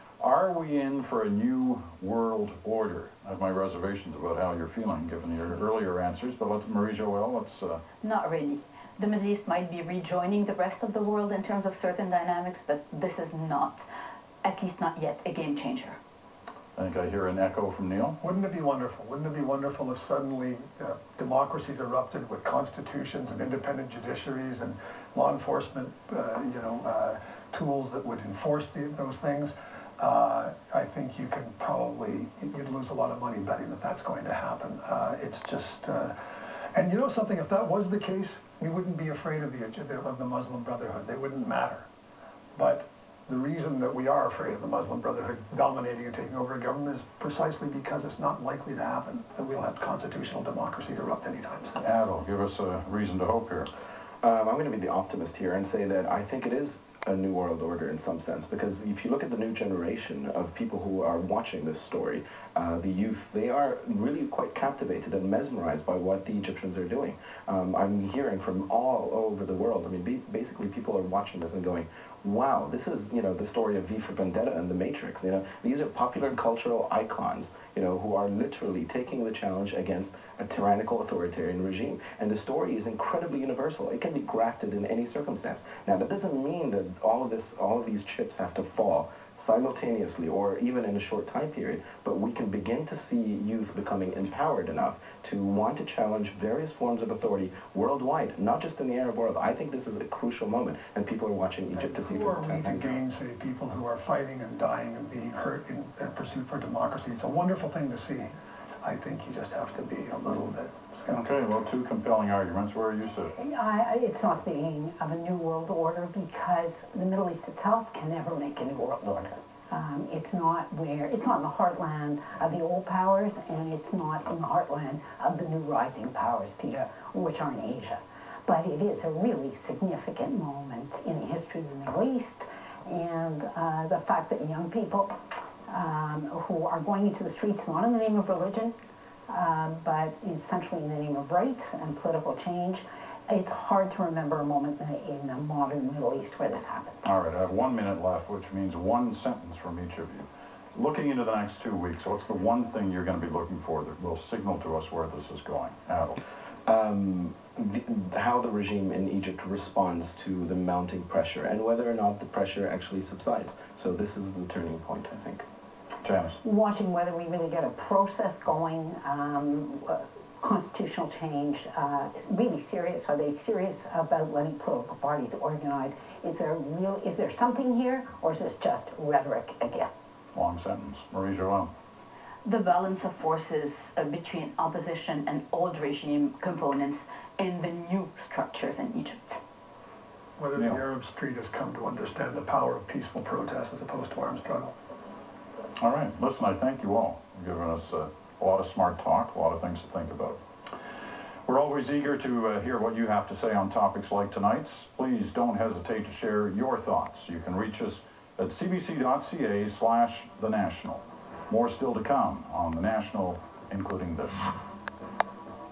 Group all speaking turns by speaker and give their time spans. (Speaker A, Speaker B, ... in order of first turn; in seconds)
Speaker A: 0.2-7.8, 16.8-18.2, 51.8-53.7, 111.1-113.3, 147.0-156.2, 166.0-166.4, 180.3-181.7, 190.6-190.8, 195.8-200.4, 201.5-214.4
Speaker B: 8.0-13.8, 14.4-16.0, 182.4-189.4
Speaker C: 18.2-36.1, 36.7-41.9, 42.6-51.9, 101.8-108.3, 108.8-111.2, 190.4-194.7
Speaker D: 54.2-103.0, 156.7-165.5
Speaker E: 113.4-138.7, 139.3-147.0, 166.4-179.9